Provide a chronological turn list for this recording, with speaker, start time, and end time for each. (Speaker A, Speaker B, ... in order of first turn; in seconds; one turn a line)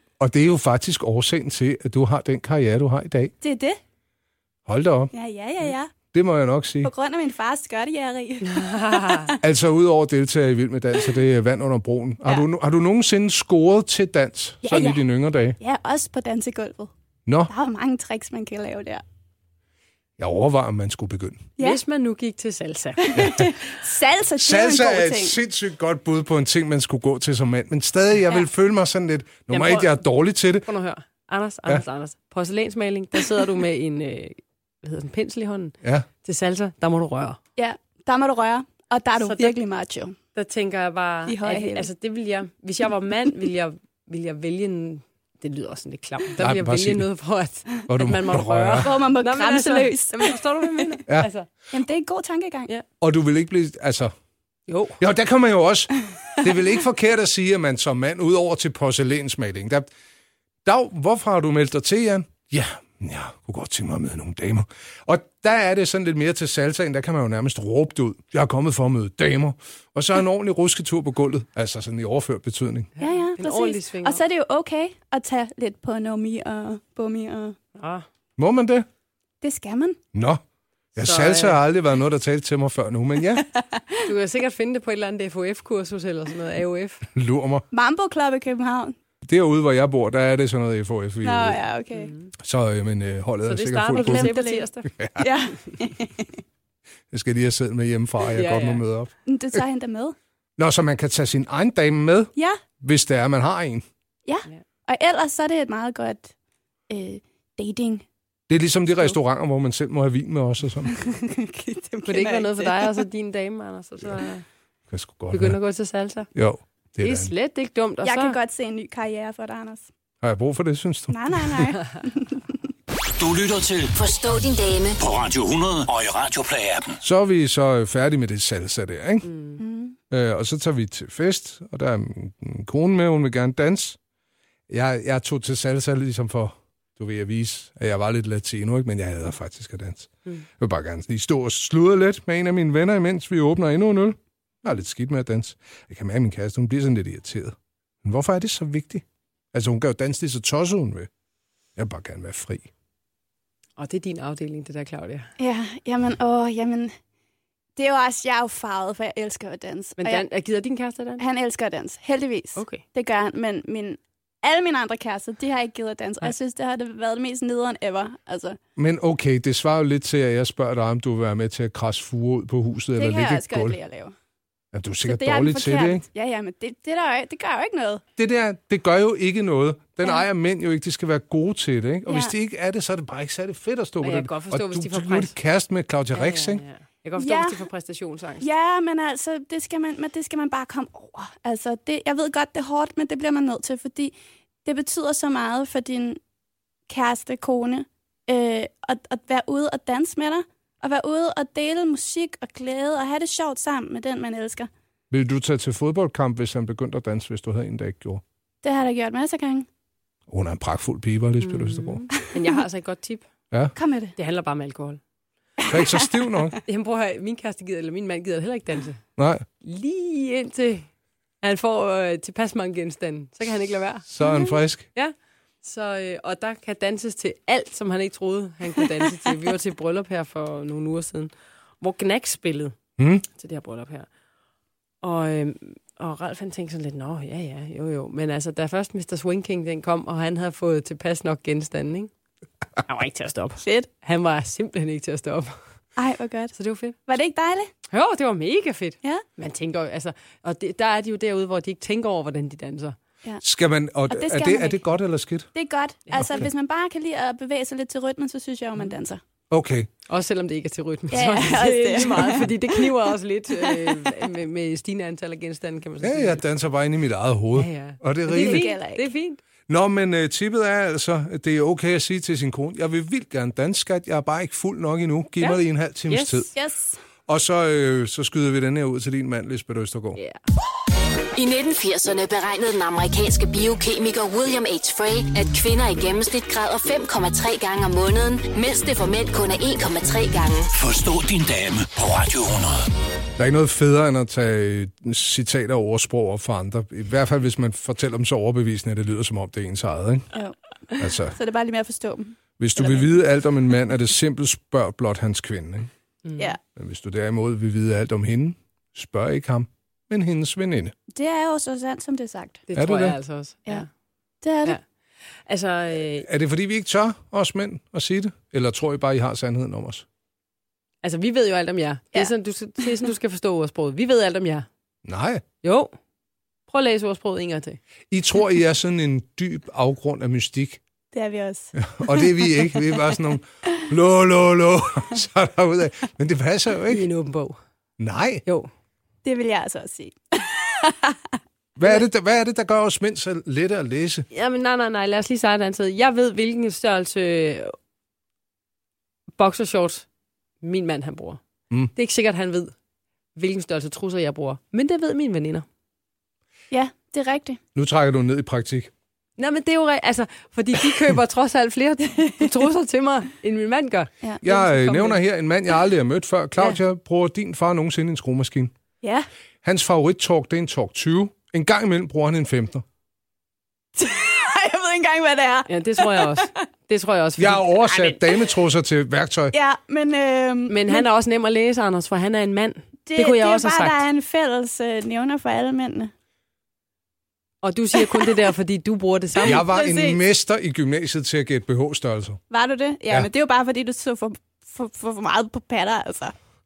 Speaker A: 0.2-3.3
Speaker B: 3.4-3.8
Speaker A: 4.7-5.1
Speaker B: 5.1-5.9
Speaker A: 6.1-6.9
Speaker B: 6.8-9.4
Speaker C: 8.5-9.3
Speaker A: 9.4-15.6
Speaker B: 14.6-15.0
Speaker B: 15.6-16.9
Speaker B: 17.5-19.0
Speaker A: 20.2-21.5
Speaker C: 21.6-23.4
Speaker B: 23.0-25.4
Speaker A: 24.4-30.7
Speaker C: 29.5-30.0
Speaker C: 30.6-37.4
Speaker B: 37.6-40.2
Speaker C: 39.2-39.6
Speaker C: 40.4-51.5
Speaker B: 41.3-41.9
Speaker A: 46.4-47.1
Speaker A: 47.9-49.0
Speaker B: 48.8-50.9
Speaker B: 51.7-52.7
Speaker A: 53.0-54.1
Speaker C: 54.7-55.0
Speaker A: 55.0-59.9
Speaker A: 60.6-72.9
Speaker C: 73.0-74.2
Speaker B: 73.0-77.6
Speaker C: 77.8-78.1
Speaker A: 78.4-78.9
Speaker B: 79.4-80.0
Speaker A: 80.1-80.4
Speaker A: 81.0-83.5
Speaker C: 81.0-81.6
Speaker B: 83.4-84.1
Speaker C: 84.0-87.0
Speaker A: 87.1-87.6
Speaker B: 87.7-89.0
Speaker A: 89.2-91.6
Speaker B: 91.2-92.1
Speaker C: 91.9-92.3
Speaker A: 92.4-94.3
Speaker C: 93.5-94.9
Speaker B: 94.0-96.3
Speaker A: 94.9-95.3
Speaker A: 97.1-99.6
Speaker C: 98.3-98.8
Speaker B: 99.2-100.1
Speaker A: 100.6-103.8
Speaker B: 104.2-106.3
Speaker B: 106.9-108.0
Speaker A: 108.5-110.9
Speaker B: 110.9-113.0
Speaker C: 112.0-114.5
Speaker A: 114.9-115.6
Speaker C: 115.3-116.3
Speaker A: 116.3-117.3
Speaker C: 117.0-118.4
Speaker B: 118.0-119.9
Speaker A: 120.2-121.7
Speaker B: 121.1-122.5
Speaker D: 123.2-124.0
Speaker E: 124.0-125.0
Speaker D: 125.0-127.0
Speaker A: 127.0-129.3
Speaker C: 129.2-129.6
Speaker B: 129.6-130.0
Speaker A: 130.1-134.0
Speaker A: 134.7-151.1
Speaker A: 151.8-152.7
Speaker C: 153.8-155.3
Speaker B: 155.4-156.9
Speaker B: 157.8-160.2
Speaker C: 160.0-161.2
Speaker B: 161.2-168.6
Speaker C: 162.6-162.8
Speaker A: 168.8-173.8
Speaker B: 173.0-174.1
Speaker A: 174.7-176.1
Speaker B: 175.1-178.0
Speaker A: 178.2-186.6
Speaker B: 182.1-182.3
Speaker C: 184.0-185.3
Speaker C: 186.1-188.5
Speaker B: 187.2-187.6
Speaker B: 188.4-196.2
Speaker B: 196.9-204.7
Speaker A: 205.1-208.2
Speaker B: 208.6-209.7
Speaker A: 210.3-212.1
Speaker C: 211.4-213.2
Speaker B: 213.8-214.1
Speaker C: 214.2-215.0
Speaker B: 215.6-216.1
Speaker A: 215.7-216.6
Speaker C: 216.6-219.0
Speaker A: 219.2-219.4
Speaker C: 219.6-220.9
Speaker C: 221.4-224.1
Speaker A: 224.1-224.9
Speaker C: 224.9-232.8
Speaker A: 233.0-233.2
Speaker C: 233.3-234.1
Speaker C: 235.0-242.1
Speaker C: 242.9-245.6
Speaker B: 243.6-243.9
Speaker B: 246.0-246.6
Speaker C: 246.6-247.0
Speaker B: 247.1-247.7
Speaker C: 247.9-253.0
Speaker A: 253.4-255.5
Speaker B: 254.1-254.8
Speaker B: 255.5-259.2
Speaker C: 256.1-256.4
Speaker A: 259.5-259.9
Speaker C: 260.1-266.4
Speaker B: 261.1-262.9
Speaker B: 263.6-264.1
Speaker A: 266.0-268.7
Speaker C: 267.6-269.4
Speaker B: 268.3-269.1
Speaker A: 269.7-276.5
Speaker C: 276.1-276.5
Speaker B: 276.6-277.0
Speaker A: 277.3-280.2
Speaker E: 281.4-290.7
Speaker D: 290.7-292.9
Speaker A: 293.4-300.3
Speaker B: 300.3-303.0
Speaker A: 301.0-301.4
Speaker A: 302.6-305.9
Speaker C: 306.2-306.5
Speaker A: 306.8-310.9
Speaker B: 311.1-312.6
Speaker C: 312.7-313.9
Speaker A: 312.8-313.2
Speaker B: 314.4-314.8
Speaker C: 315.5-316.3
Speaker A: 316.2-320.1
Speaker C: 321.0-324.7
Speaker A: 325.1-325.4
Speaker C: 325.6-325.9
Speaker C: 326.7-327.8
Speaker A: 328.1-330.8
Speaker B: 331.1-332.9
Speaker A: 331.8-337.1
Speaker C: 336.9-337.6
Speaker A: 338.0-338.4
Speaker B: 339.2-341.2
Speaker A: 341.8-344.3
Speaker C: 344.3-347.8
Speaker C: 349.4-350.1
Speaker C: 350.6-351.4
Speaker C: 351.9-352.7
Speaker C: 353.4-355.6
Speaker B: 356.7-357.6
Speaker A: 357.8-358.9
Speaker C: 359.4-365.2
Speaker B: 362.2-362.4
Speaker A: 364.4-368.7
Speaker B: 369.0-369.3
Speaker A: 369.6-372.9
Speaker B: 374.0-376.5
Speaker C: 375.7-378.2
Speaker A: 377.4-379.5
Speaker B: 379.5-381.1
Speaker C: 380.7-384.0
Speaker B: 383.1-386.1
Speaker C: 387.6-389.6
Speaker B: 389.4-390.2
Speaker A: 389.4-392.4
Speaker B: 392.5-396.3